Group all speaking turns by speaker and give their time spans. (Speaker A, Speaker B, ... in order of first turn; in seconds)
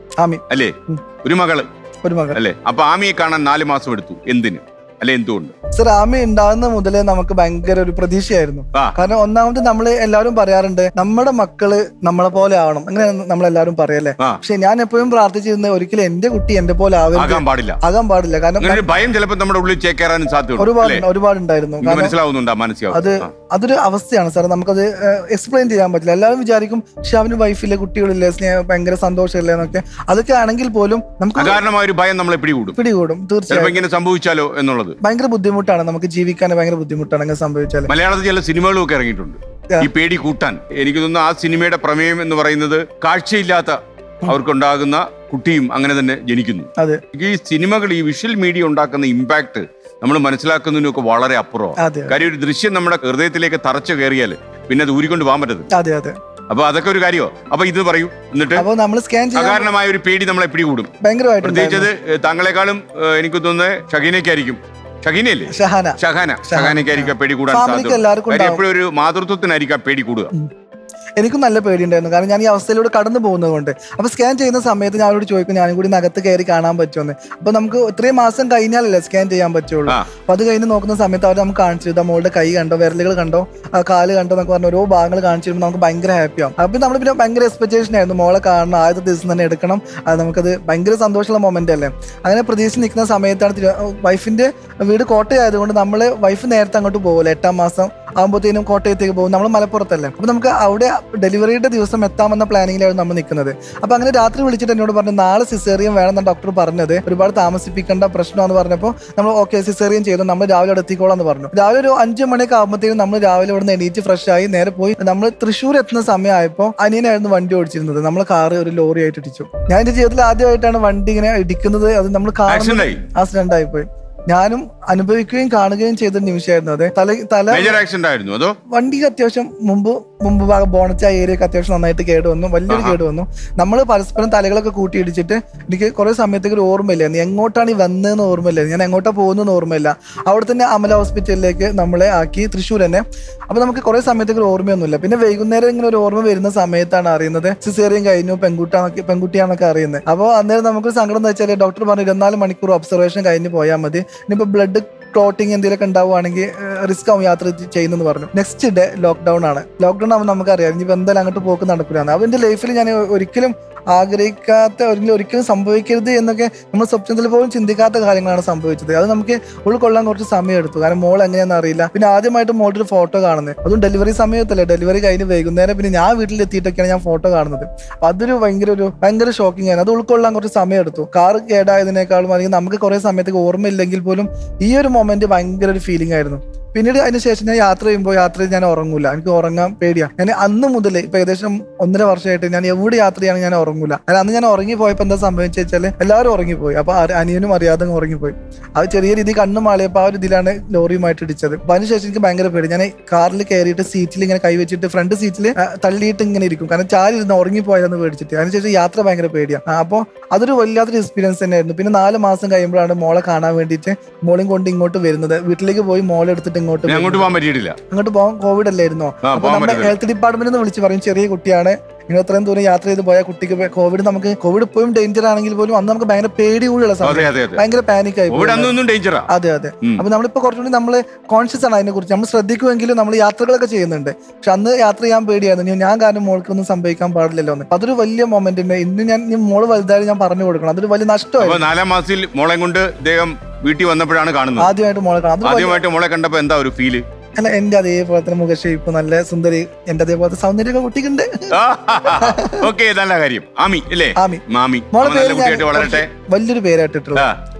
Speaker A: 0.2-1.0, 2.0-2.4, 5.8-18.8, 20.6-22.1, 22.9-31.6, 32.8-33.8, 35.0-37.9, 51.8-52.2, 55.7-56.2, 58.6-59.7, 61.0-61.9, 65.5-68.6, 71.2-127.8, 128.7-217.3, 217.9-228.8, 229.3-241.6, 244.6-245.8, 247.4-251.5, 252.1-252.7, 254.2-257.3
Speaker B: 0.5-1.7, 2.3-5.5, 17.1-17.8, 18.6-21.0, 21.8-23.3, 31.3-32.8, 33.5-35.0, 37.9-55.7, 56.5-58.6, 59.3-60.9, 61.4-70.3, 122.5-123.0, 127.5-128.6, 132.7-133.0, 216.9-217.8, 219.2-219.9, 227.0-227.6, 228.3-229.3, 241.4-244.7, 245.4-247.0, 251.5-256.1